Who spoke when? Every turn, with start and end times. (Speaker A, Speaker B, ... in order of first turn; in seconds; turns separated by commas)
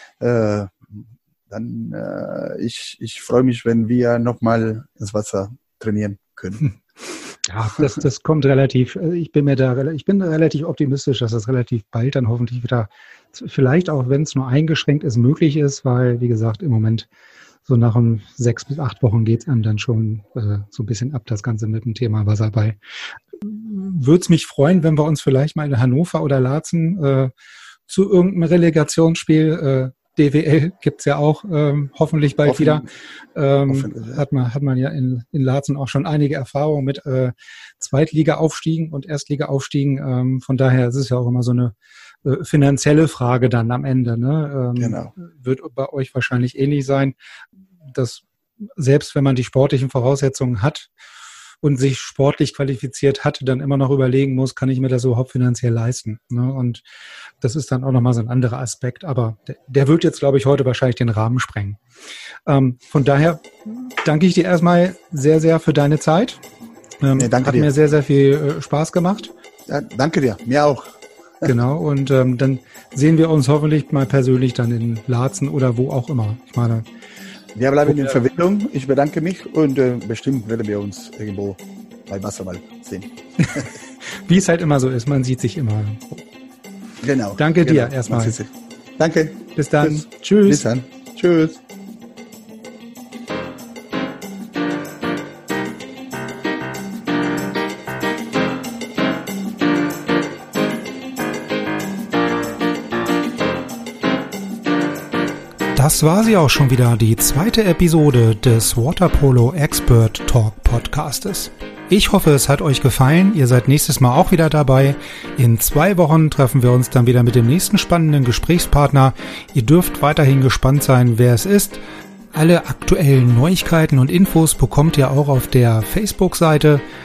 Speaker A: 0.2-6.7, Speaker B: 7.5-17.1, Speaker B: 17.7-22.8, Speaker B: 23.4-27.3, Speaker B: 27.9-47.1, Speaker A: 32.5-32.9, Speaker A: 33.7-34.2, Speaker A: 44.8-45.1, Speaker B: 47.9-48.2, Speaker B: 48.8-50.9, Speaker B: 51.6-56.8, Speaker B: 57.4-61.8, Speaker B: 62.5-66.4, Speaker B: 67.0-69.3, Speaker A: 67.2-67.7, Speaker A: 69.7-71.5, Speaker B: 71.5-76.8, Speaker A: 77.5-83.7, Speaker B: 83.4-86.2, Speaker A: 87.0-91.6, Speaker B: 87.4-88.4, Speaker B: 89.6-90.7, Speaker B: 105.7-121.8, Speaker B: 122.3-126.8